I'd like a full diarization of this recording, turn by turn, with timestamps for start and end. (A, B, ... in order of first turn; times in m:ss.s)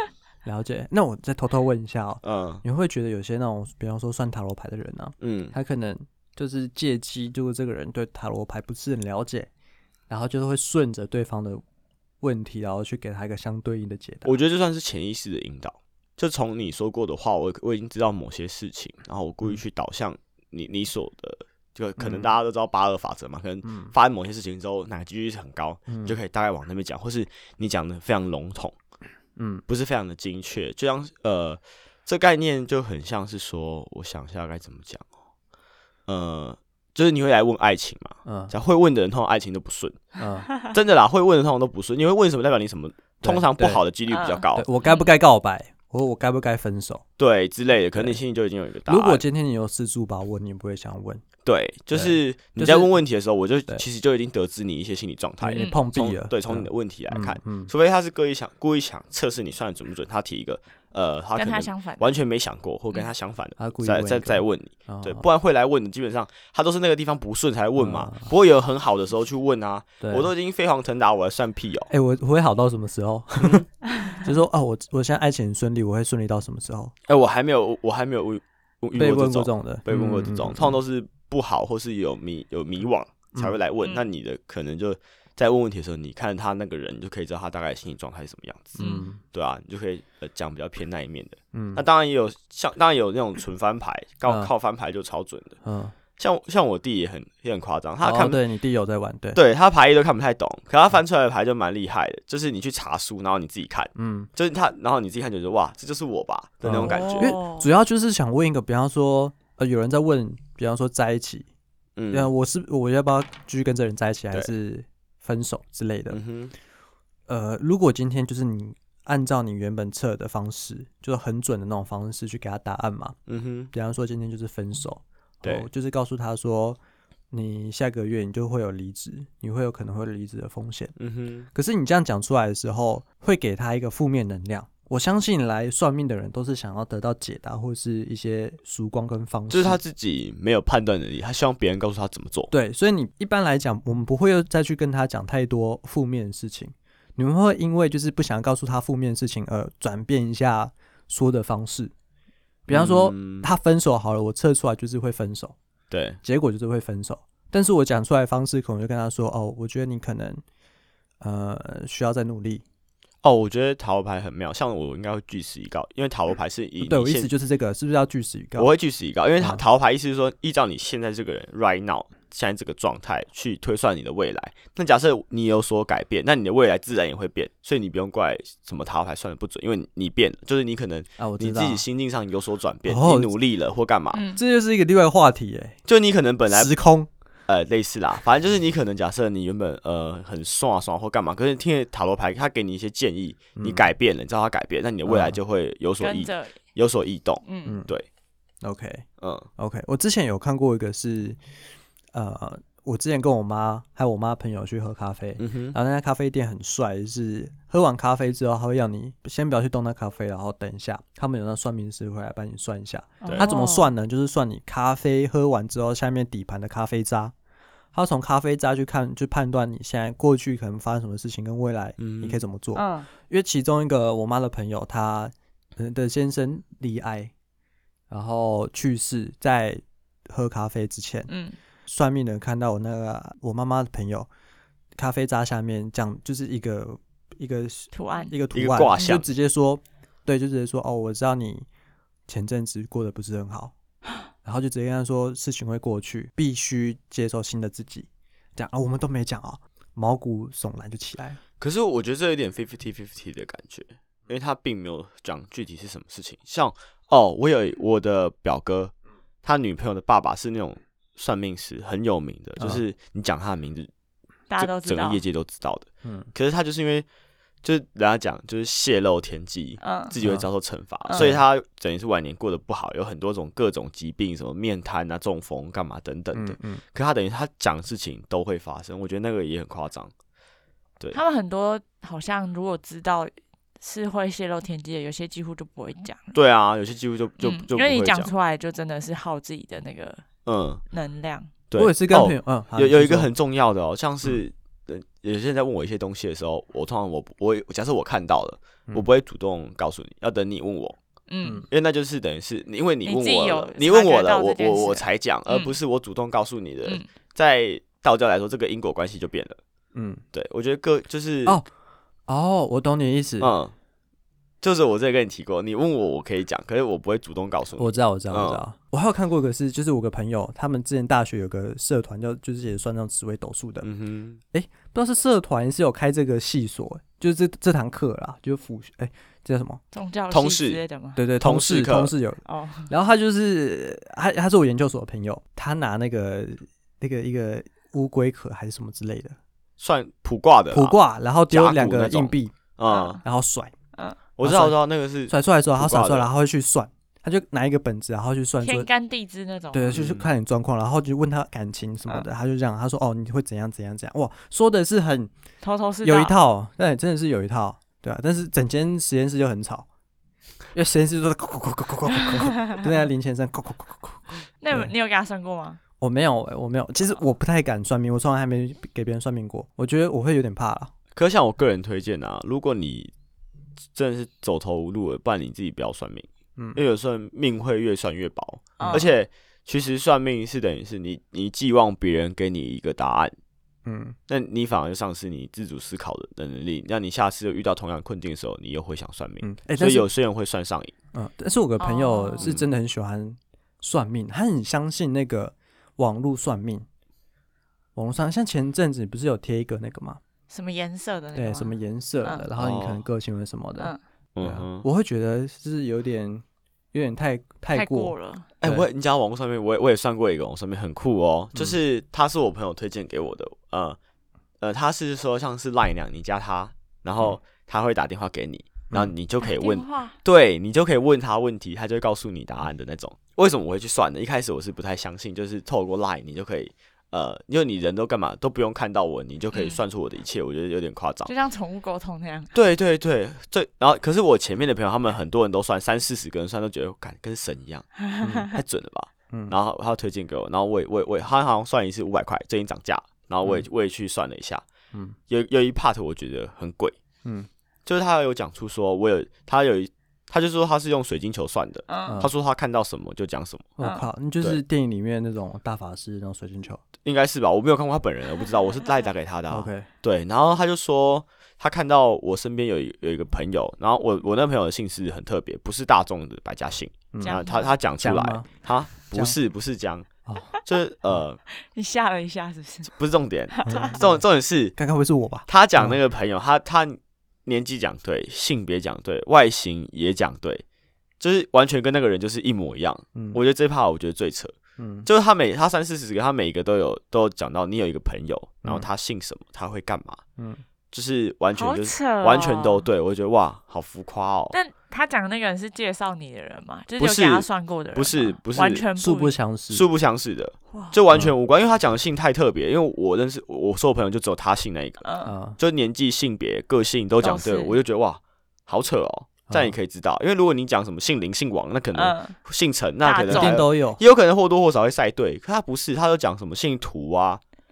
0:00.4-0:09.5 A
0:02.2-0:02.6 B
0:05.2-0:05.5 B
0:10.1-0:11.6 A
0:12.2-0:14.3 A
0:14.2-0:28.8 B
0:22.0-0:22.3 A
0:23.6-0:23.9 A
0:25.9-0:26.2 A
0:29.4-0:29.6 A
0:29.7-0:35.0 B
0:36.1-0:40.0 B
0:38.2-0:38.5 A
0:40.2-0:40.5 A
0:40.6-0:44.6 B
0:43.2-0:43.8 A
0:44.1-0:45.1 C
0:44.5-0:47.0 A
0:47.2-0:49.2 B
0:48.9-0:51.2 A
0:51.4-1:11.9 B
0:51.9-0:52.9 A
0:55.4-0:57.7 A
0:55.6-0:55.8 C
1:01.4-1:02.2 C
1:03.6-1:05.2 A
1:07.8-1:08.3 A
1:10.0-1:10.3 A
1:11.9-1:16.9 A
1:13.4-1:13.6 B
1:17.1-1:35.6 B
1:19.0-1:20.8 A
1:28.8-1:29.2 A
1:28.8-1:29.0 C
1:31.5-1:31.8 A
1:34.2-1:34.5 A
1:35.6-1:35.9 A
1:36.2-1:38.4 B
1:38.0-1:39.4 A
1:39.3-1:47.4 B
1:44.0-1:44.3 A
1:46.6-1:51.5 A
1:46.8-1:47.7 C
1:52.0-1:52.3 B
1:52.1-1:56.2 A
1:56.1-1:56.5 B
1:57.3-2:03.2 A
2:03.3-2:03.7 B
2:03.7-2:06.8 A
2:07.3-2:10.9 A
2:11.0-2:11.5 B
2:11.5-2:19.8 A
2:19.5-2:22.5 B
2:22.5-2:31.9 A
2:32.7-2:35.6 A
2:32.7-2:33.5 B
2:35.9-2:36.2 B
2:36.2-2:40.4 A
2:41.2-2:42.6 A
2:43.2-2:47.3 B
2:46.8-2:48.7 A
2:48.6-3:04.2 B
3:01.2-3:01.8 A
3:02.9-3:03.3 A
3:04.1-3:04.4 C
3:04.4-3:05.8 A
3:05.9-3:06.7 B
3:06.5-3:07.1 A
3:07.5-3:18.1 B
3:13.6-3:13.8 A
3:15.1-3:15.4 A
3:16.0-3:16.6 C
3:17.4-3:17.8 C
3:17.6-3:17.9 A
3:18.6-3:19.1 A
3:19.2-3:19.5 B
3:19.6-3:21.4 A
3:22.1-3:37.3 A
3:25.4-3:25.8 B
3:33.2-3:33.9 C
3:33.2-3:33.5 B
3:37.9-3:47.3 A
3:42.0-3:42.4 B
3:42.7-3:43.1 C
3:48.1-3:51.3 A
3:51.3-3:51.6 C
3:51.9-3:54.3 A
3:55.0-4:01.6 A
3:57.9-3:58.3 C
3:58.5-3:59.3 B
4:02.3-4:03.7 A
4:04.4-4:11.4 A
4:11.6-4:23.9 B
4:24.5-4:25.2 C
4:24.6-4:27.1 B
4:26.0-4:26.3 A
4:27.6-4:40.1 B
4:29.8-4:30.1 C
4:31.1-4:31.4 A
4:36.3-4:36.8 A
4:41.1-4:46.4 C
4:46.3-4:48.3 B
4:47.4-4:50.2 C
4:50.4-4:50.8 B
4:50.9-4:51.5 C
4:51.7-5:01.0 B
4:51.8-4:53.3 A
5:01.3-5:01.6 C
5:01.7-5:09.6 B
5:03.0-5:05.8 C
5:09.9-5:10.2 A
5:10.3-5:11.6 B
5:12.3-5:13.5 A
5:13.4-5:13.7 B
5:14.6-5:18.6 B
5:17.8-5:23.9 A
5:23.8-5:24.4 B
5:24.5-5:29.8 A
5:29.9-5:31.2 C
5:30.3-5:30.8 B
5:31.2-5:39.4 A
5:31.4-5:32.1 B
5:32.4-5:32.9 C
5:39.8-5:41.0 B
5:40.7-5:42.6 A
5:41.5-5:43.2 B
5:42.9-5:43.2 C
5:43.2-5:43.7 A
5:44.4-5:46.3 B
5:44.4-5:44.8 A
5:45.3-5:48.9 A
5:48.6-5:50.0 C
5:49.7-5:55.3 A
5:49.9-5:50.3 B
5:55.6-5:56.4 C
5:56.0-5:59.9 A
6:00.7-6:04.9 A
6:04.6-6:05.8 C
6:06.0-6:10.9 A
6:11.2-6:13.1 B
6:13.9-6:23.3 B
6:18.8-6:19.1 A
6:18.8-6:19.1 C
6:23.8-6:24.2 A
6:24.3-6:30.9 B
6:29.4-6:30.1 A
6:31.1-6:36.9 A
6:31.8-6:32.5 C
6:37.9-6:40.2 A
6:40.5-6:42.5 C
6:41.4-6:48.9 A
6:42.6-6:43.0 B
6:44.4-6:44.8 B
6:47.7-6:48.5 C
6:48.6-6:54.0 B
6:54.6-7:11.3 B
6:59.4-7:00.2 C
7:09.5-7:09.8 C
7:11.2-7:12.5 C
7:12.5-7:17.9 B
7:18.0-7:18.5 C
7:18.2-7:18.5 A
7:18.5-7:24.6 B
7:25.3-7:27.0 B
7:27.9-7:33.7 B
7:31.9-7:32.2 C
7:32.0-7:32.3 A
7:33.8-7:36.8 A
7:33.8-7:34.1 C
7:37.0-7:50.1 B
7:39.5-7:39.9 A
7:47.1-7:47.4 A
7:47.2-7:47.7 C
7:48.0-7:48.5 A
7:49.1-7:49.4 A
7:50.6-7:51.4 B
7:51.7-7:53.0 C
7:52.9-7:54.7 B
7:53.5-7:54.0 C
7:53.6-7:54.2 A
7:54.7-7:56.0 A
7:55.5-8:00.6 B
8:01.2-8:10.2 B
8:03.1-8:03.4 A
8:04.8-8:05.1 A
8:10.4-8:10.6 A
8:10.9-8:14.6 B
8:11.5-8:12.9 C
8:14.5-8:19.4 C
8:17.0-8:18.8 B
8:19.0-8:19.8 A
8:19.7-8:25.1 B
8:20.7-8:21.0 C
8:25.0-8:25.4 C
8:25.2-8:25.6 A
8:25.6-8:37.4 B
8:27.2-8:27.8 C
8:29.5-8:29.7 A
8:31.9-8:32.4 C
8:33.0-8:33.6 C
8:33.3-8:34.0 A